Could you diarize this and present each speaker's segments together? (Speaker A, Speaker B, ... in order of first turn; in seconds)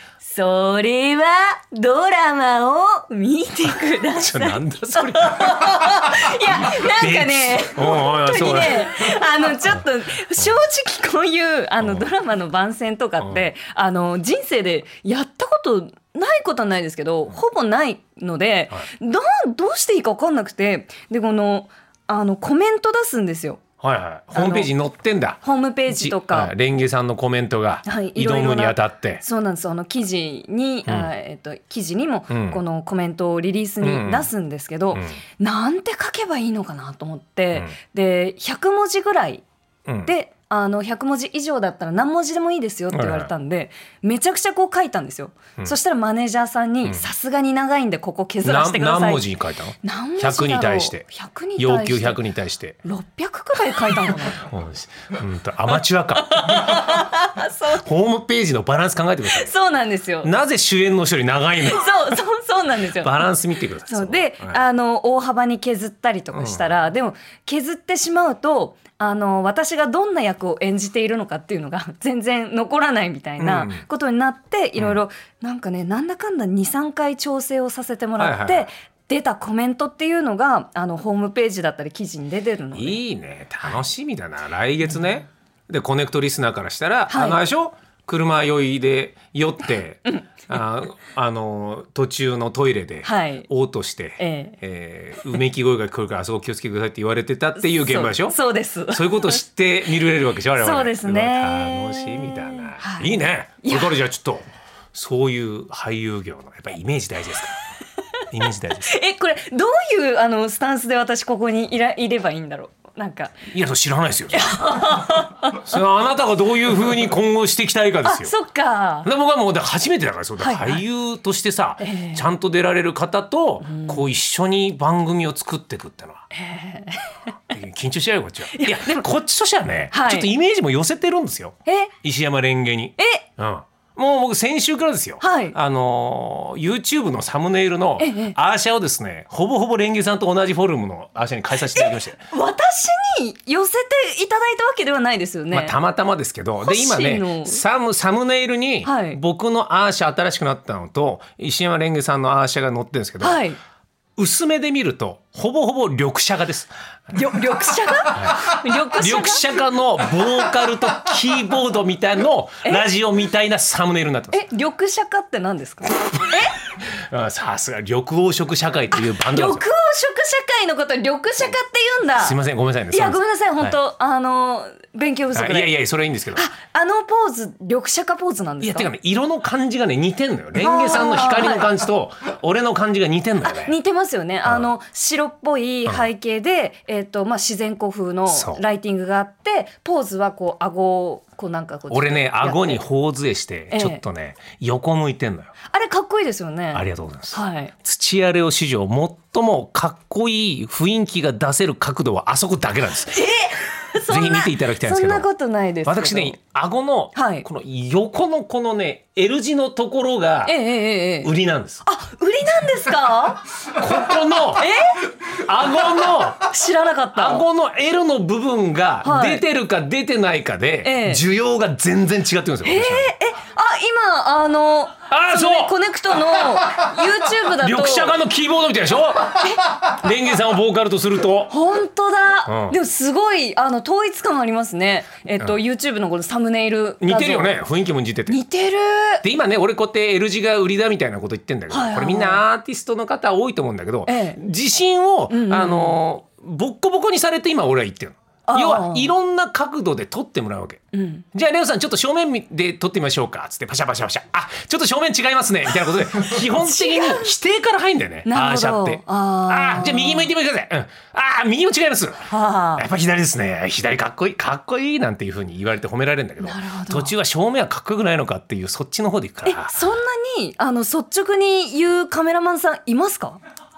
Speaker A: 0.2-23.6, 24.3-24.7, 25.4-26.5, 27.9-39.4, 40.0-52.2, 52.8-54.4, 56.3-57.8, 59.3-60.3, 61.6-63.2, 63.9-83.0, 87.1-87.4, 93.0-93.5, 94.2-94.6, 97.6-99.4, 100.6-104.0, 108.8-113.4, 114.3-115.7, 118.0-119.1, 120.4-120.8, 121.8-122.2, 123.6-124.0, 126.3-127.2, 128.5-129.0, 129.9-130.3, 131.7-131.9, 133.0-133.2, 135.2-135.6, 138.0-138.3, 141.7-145.8, 146.6-147.6, 148.8-149.2, 153.2-153.6, 157.1-159.5, 164.3-166.6, 168.9-172.4, 172.9-175.8, 176.3-178.9, 180.6-181.7, 183.4-192.8, 193.7-194.0, 195.7-197.7, 203.1-206.4, 207.1-207.4, 210.4-211.3, 211.8-213.4, 214.6-215.1, 216.5-217.4, 219.0-219.4, 220.8-221.2, 222.6-228.2, 231.5-237.6, 238.3-239.2, 241.7-242.4, 244.1-244.4, 245.3-246.0, 248.4-249.1, 250.9-251.2, 256.6-257.3, 258.3-260.3, 262.3-262.9, 266.4-267.1, 269.4-273.4
Speaker B: 4.1-9.1, 11.8-12.1, 13.2-13.4, 23.8-29.2, 30.9-31.1, 32.3-32.6, 33.8-34.3, 34.9-35.2, 39.9-40.1, 42.9-43.3, 48.4-51.0, 51.6-52.8, 54.2-57.0, 57.7-59.5, 60.2-62.0, 62.9-64.6, 66.3-66.7, 73.4-73.8, 78.2-78.7, 82.7-98.3, 98.9-107.5, 108.3-108.9, 113.5-114.6, 115.4-118.3, 119.0-126.2, 127.5-142.2, 145.5-153.4, 154.2-156.7, 158.1-164.4, 166.9-169.6, 172.2-173.8, 175.3-176.5, 178.6-183.8, 184.4-184.7, 188.3-188.6, 191.9-195.5, 196.7-203.2, 204.1-205.3, 205.8-210.6, 211.2-211.8, 213.7-214.7, 215.2-216.5, 217.2-223.1, 225.1-225.8, 227.6-231.5, 232.4-232.8, 237.0-238.4, 239.2-250.8, 251.3-269.8